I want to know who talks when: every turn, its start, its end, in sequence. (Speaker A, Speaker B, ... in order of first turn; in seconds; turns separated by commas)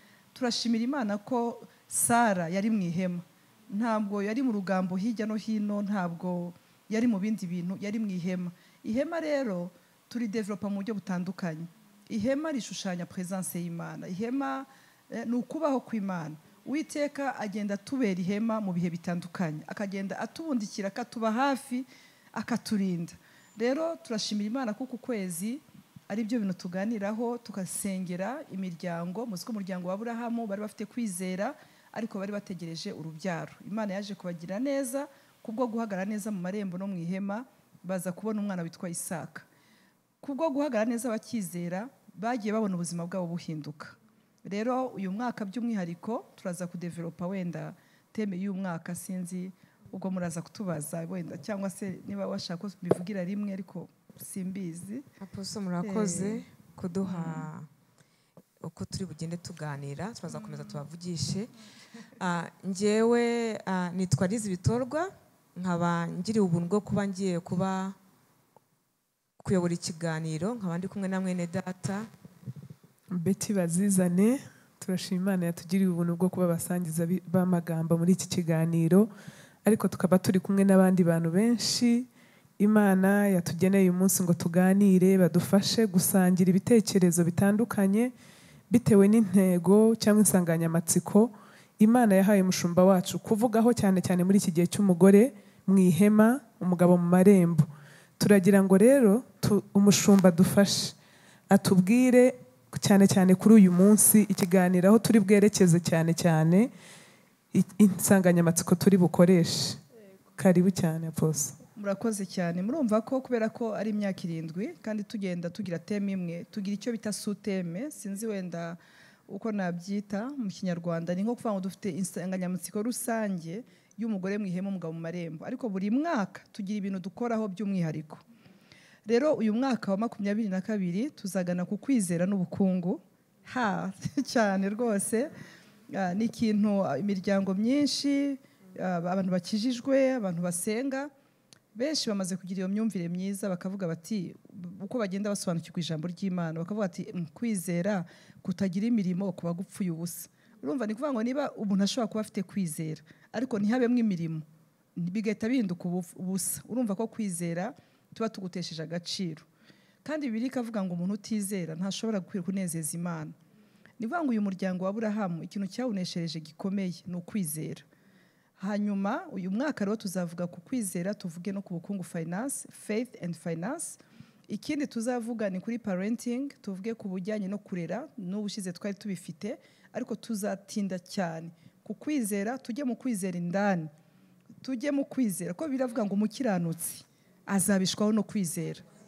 Speaker A: 0.3-39.5, Speaker A: 40.2-55.1, Speaker B: 55.2-57.7, Speaker A: 55.8-56.4, Speaker A: 57.0-57.5, Speaker B: 58.6-61.5, Speaker A: 60.3-60.8, Speaker B: 62.2-68.0, Speaker B: 69.4-72.1, Speaker C: 73.1-79.1, Speaker C: 79.7-88.1, Speaker C: 88.7-97.7, Speaker C: 98.2-101.0, Speaker C: 101.5-106.7, Speaker C: 107.5-109.8, Speaker C: 110.4-111.6, Speaker A: 111.8-128.2, Speaker A: 129.1-135.3, Speaker A: 135.9-141.1, Speaker A: 141.8-154.4, Speaker A: 155.0-159.5, Speaker A: 160.0-163.4, Speaker A: 164.0-167.9, Speaker A: 168.6-183.9, Speaker A: 184.6-188.8